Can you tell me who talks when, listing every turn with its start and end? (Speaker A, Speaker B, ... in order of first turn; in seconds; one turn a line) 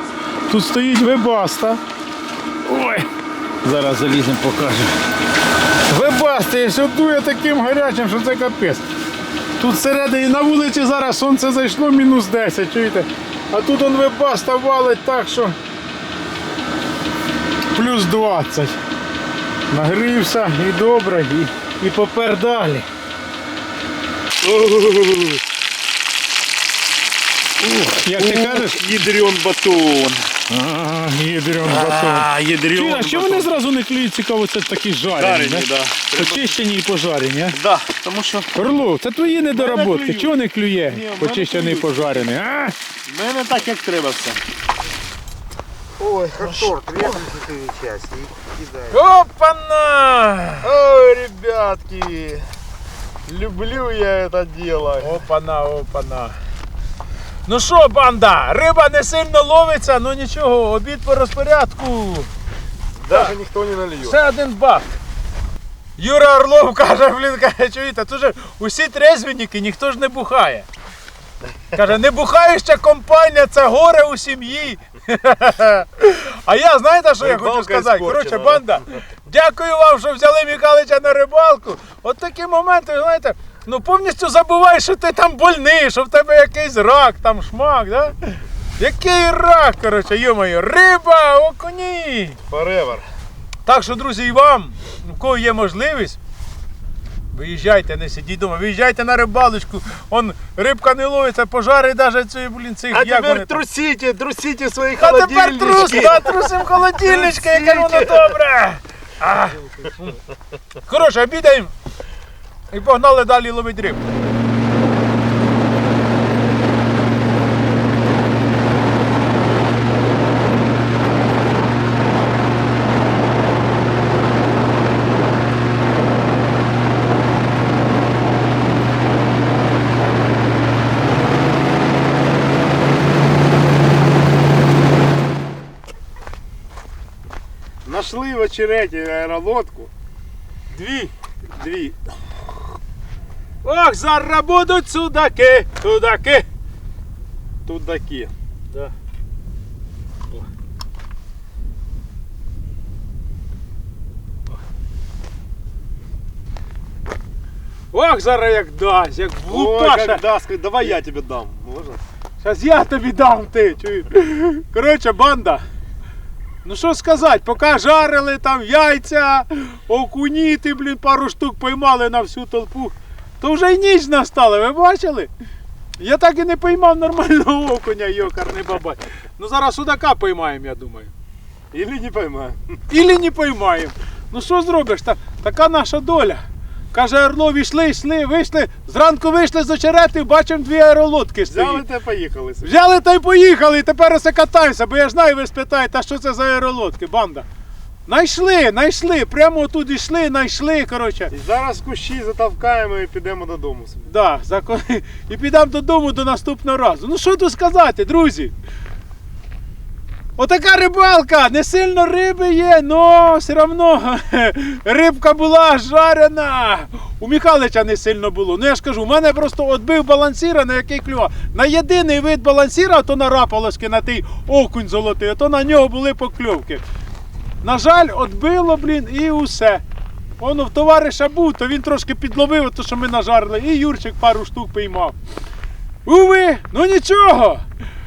Speaker A: 0.5-1.8
Speaker A: 2.6-3.1
Speaker A: 3.6-4.9
Speaker A: 5.9-8.9
Speaker A: 9.6-15.6
Speaker A: 17.7-18.8
Speaker A: 19.7-22.9
Speaker B: 24.4-25.4
Speaker A: 27.6-29.0
Speaker B: 28.1-30.2
Speaker A: 30.5-37.6
Speaker B: 31.6-33.5
Speaker B: 35.2-36.6
Speaker B: 37.5-38.5
Speaker A: 38.5-42.7
Speaker B: 39.5-40.3
Speaker B: 40.9-42.3
Speaker B: 43.1-44.4
Speaker C: 46.0-49.0
Speaker B: 46.0-47.2
Speaker A: 48.9-50.7
Speaker B: 50.6-52.4
Speaker B: 53.2-55.2
Speaker A: 55.0-56.4
Speaker A: 57.5-62.3
Speaker B: 63.0-64.2
Speaker A: 64.0-64.9
Speaker A: 66.0-70.7
Speaker A: 71.7-92.4
Speaker B: 77.2-78.7
Speaker B: 92.5-93.0
Speaker A: 93.6-96.2
Speaker A: 97.3-103.6
Speaker B: 102.9-108.3
Speaker A: 105.0-110.1
Speaker A: 110.9-111.7
Speaker A: 112.7-114.0
Speaker B: 137.8-139.9
Speaker B: 140.7-142.0
Speaker A: 143.6-146.4
Speaker B: 147.7-148.3
Speaker A: 157.9-160.2
Speaker B: 159.5-162.0
Speaker A: 162.4-165.6
Speaker A: 166.6-175.3
Speaker A: 176.0-181.1
Speaker B: 181.7-182.6
Speaker A: 182.9-186.4
Speaker A: 186.9-191.8
Speaker B: 191.5-192.7
Speaker A: 192.6-197.4
Speaker A: 198.1-201.3
Speaker B: 201.3-204.1
Speaker A: 204.1-208.5
Speaker A: 210.4-226.8
Speaker A: 227.6-229.8
Speaker A: 230.4-235.2
Speaker A: 236.1-237.6